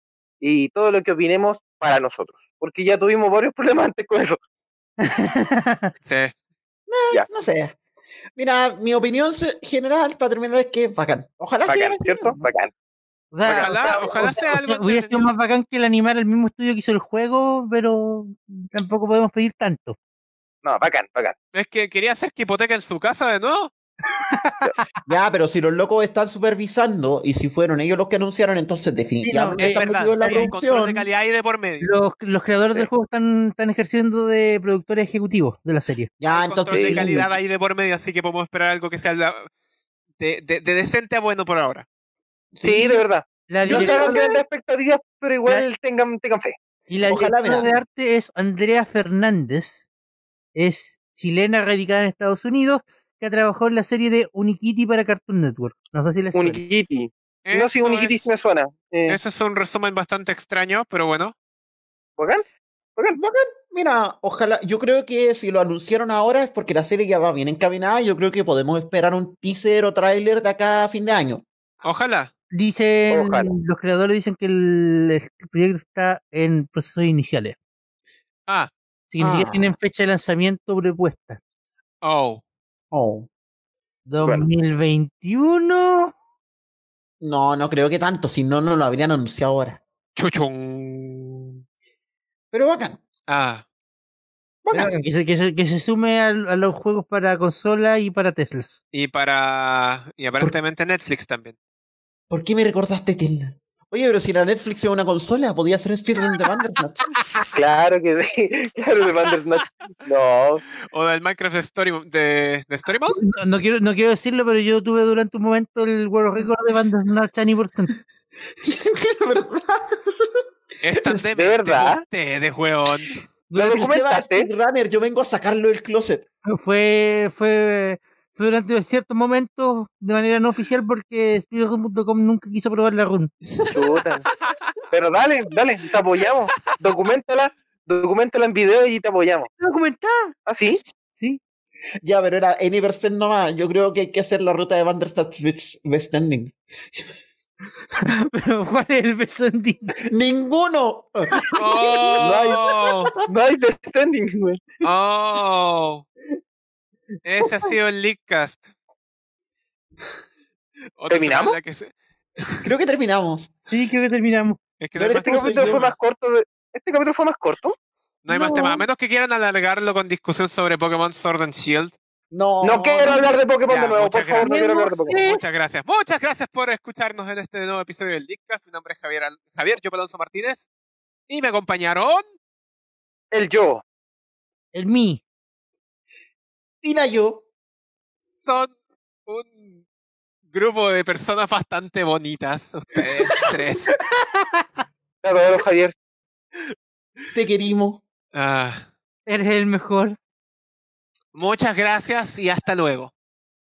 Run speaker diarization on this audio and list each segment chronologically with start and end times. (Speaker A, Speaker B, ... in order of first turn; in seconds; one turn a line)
Speaker A: 0.4-4.4
Speaker B: 5.0-5.9
Speaker C: 6.0-6.3
Speaker D: 6.9-7.8
Speaker D: 8.3-12.4
Speaker A: 11.7-12.7
Speaker B: 13.3-20.0
Speaker C: 13.4-15.3
Speaker A: 20.6-21.3
Speaker C: 21.5-23.7
Speaker B: 24.1-24.8
Speaker D: 25.1-31.1
Speaker B: 29.2-30.5
Speaker C: 29.6-31.9
Speaker B: 31.8-36.1
Speaker D: 36.2-37.3
Speaker C: 36.3-39.5
Speaker A: 36.7-37.0
Speaker C: 40.2-41.9
Speaker D: 42.5-43.0
Speaker A: 42.6-46.6
Speaker B: 43.5-44.3
Speaker D: 43.6-44.4
Speaker B: 46.9-49.9
Speaker D: 47.1-47.7
Speaker B: 50.5-56.6
Speaker A: 56.3-59.2
Speaker C: 57.5-58.3
Speaker C: 59.1-61.3
Speaker A: 62.2-62.4
Speaker D: 63.1-71.4
Speaker C: 71.8-72.3
Speaker B: 72.5-77.6
Speaker A: 73.1-73.5
Speaker B: 79.1-81.4
Speaker D: 79.2-79.7
Speaker C: 82.0-82.4
Speaker D: 82.9-83.3
Speaker B: 84.1-86.1
Speaker D: 87.2-89.8
Speaker C: 90.2-91.6
Speaker D: 92.5-93.0
Speaker C: 93.3-93.6
Speaker D: 94.6-94.9
Speaker B: 94.7-98.7
Speaker C: 98.9-101.5
Speaker D: 102.3-107.1
Speaker A: 107.5-110.6
Speaker C: 110.9-113.2
Speaker B: 113.1-117.9
Speaker D: 118.6-120.4
Speaker C: 120.8-123.2
Speaker D: 121.0-121.3
Speaker A: 121.3-122.0
Speaker D: 123.5-126.2
Speaker A: 123.5-124.5
Speaker B: 126.5-133.3
Speaker A: 133.7-134.3
Speaker A: 134.9-139.5
Speaker B: 139.6-140.3
Speaker A: 140.4-140.8
Speaker D: 142.0-147.1
Speaker B: 148.3-149.9
Speaker D: 150.1-153.1
Speaker C: 151.6-153.1
Speaker A: 152.2-152.6
Speaker A: 153.2-154.7
Speaker C: 154.8-156.0
Speaker C: 157.2-158.7
Speaker C: 161.0-162.7
Speaker A: 161.1-161.6
Speaker D: 162.6-163.5
Speaker B: 163.7-164.6
Speaker C: 164.8-165.8
Speaker D: 164.9-165.9
Speaker A: 165.2-167.7
Speaker C: 168.2-171.9
Speaker B: 168.3-168.9
Speaker D: 172.3-173.3
Speaker A: 172.6-175.2
Speaker C: 173.7-174.6
Speaker B: 174.4-175.4
Speaker C: 175.1-180.7
Speaker C: 181.3-182.2
Speaker A: 183.3-183.8
Speaker B: 184.7-185.2
Speaker D: 186.8-187.4
Speaker C: 188.3-188.7
Speaker C: 189.3-189.8
Speaker C: 190.5-193.9
Speaker D: 193.0-193.6
Speaker A: 195.2-195.9
Speaker D: 197.3-198.0
Speaker C: 198.3-198.9
Speaker B: 199.3-200.2
Speaker C: 201.3-203.1